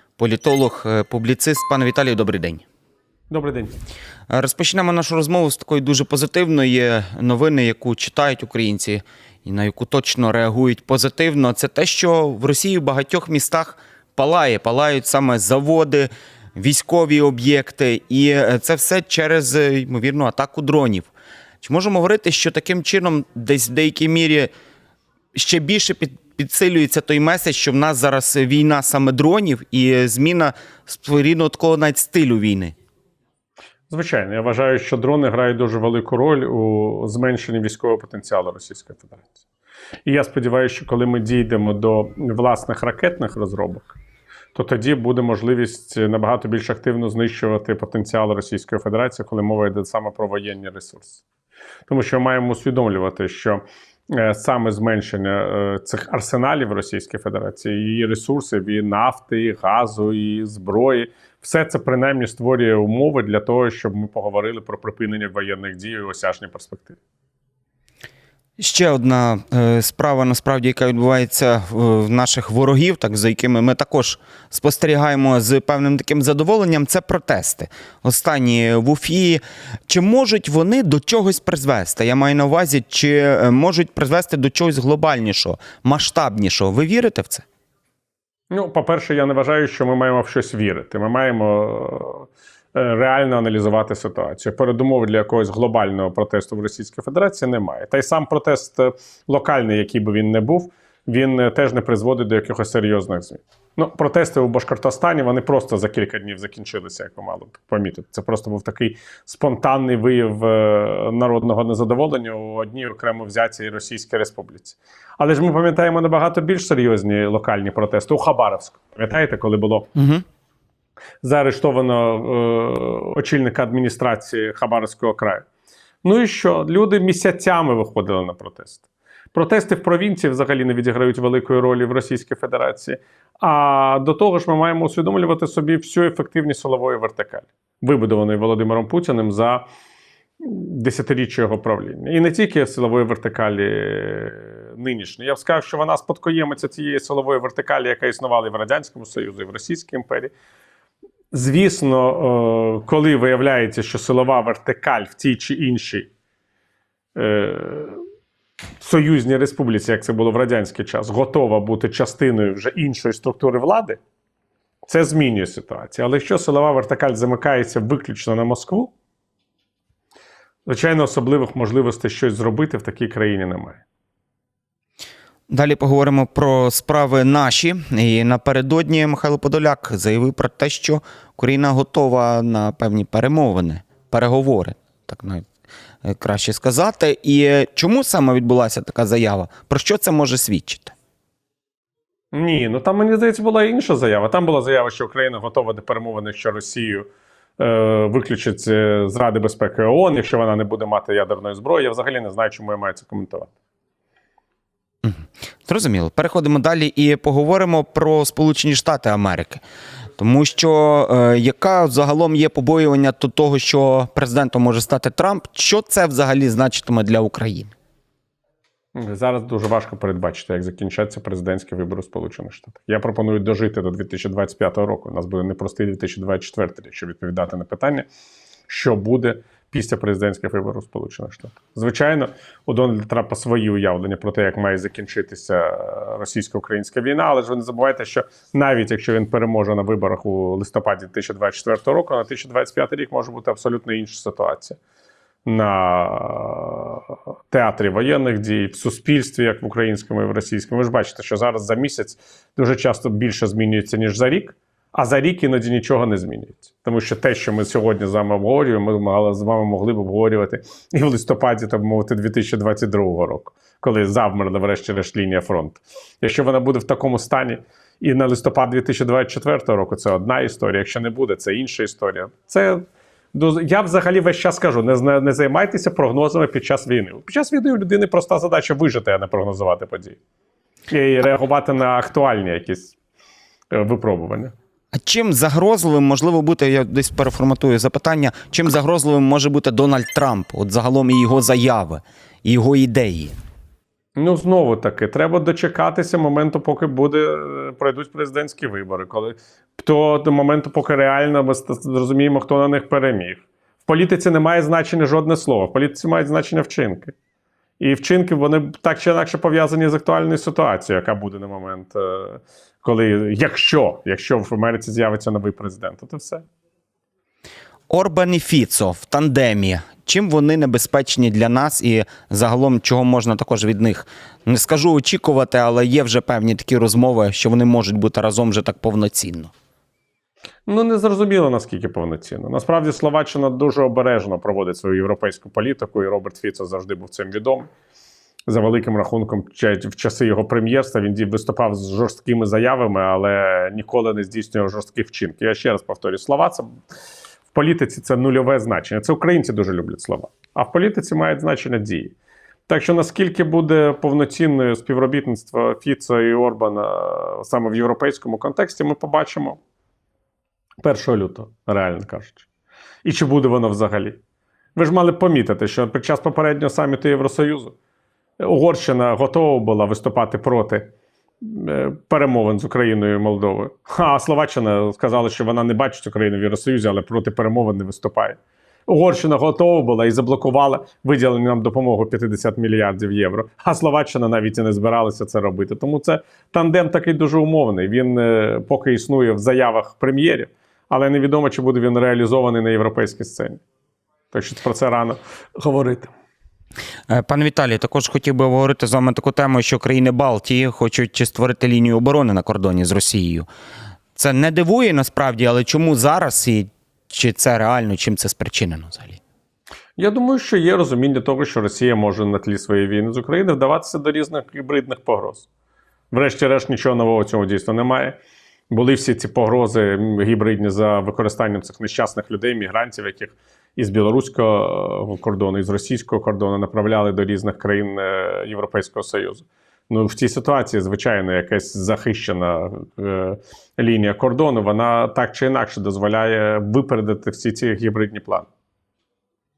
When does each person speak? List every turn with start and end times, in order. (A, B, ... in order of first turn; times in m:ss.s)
0:00.2-0:02.6 A
0:03.3-0:03.7 B
0:04.3-0:21.1 A
0:21.6-0:24.5 A
0:25.3-0:32.7 A
0:33.9-0:39.4 B
0:40.0-0:44.0 B
0:44.5-0:51.2 B
0:51.9-1:07.0 B
1:08.6-1:27.4 A
1:28.5-1:59.9 B
2:00.0-2:00.2 A
2:01.2-2:05.4 B
2:06.0-2:19.6 B
2:20.4-2:30.3 B
2:31.3-2:36.1 B
2:37.1-2:38.0 B
2:38.8-2:44.0 B
2:44.9-2:48.9 B
2:50.6-2:53.8 B
2:55.5-3:05.4 A
3:06.0-3:10.9 A
3:12.3-3:17.1 B
3:17.6-3:23.5 B
3:25.0-3:29.6 A
3:30.2-3:37.7 A
3:39.0-3:48.1 B
3:48.7-4:04.8 B
4:05.4-4:40.2 B
4:40.9-4:43.0 B
4:43.7-4:44.5 B
4:44.9-4:53.3 A
4:54.2-5:07.1 B
5:07.8-5:16.4 B
5:17.9-5:29.5 A
5:30.7-5:37.7 B
5:38.5-5:46.8 B
5:47.5-5:52.1 B
5:52.7-5:59.6 B
6:00.8-6:02.4 B
6:03.0-6:04.2 B
6:04.8-6:07.8 B
6:08.4-6:33.6 B
6:34.3-6:36.1 B
6:37.1-6:43.5 A
6:44.1-6:49.2 A
6:50.0-6:55.5 B
6:56.1-6:58.2 B
6:58.7-7:18.5 B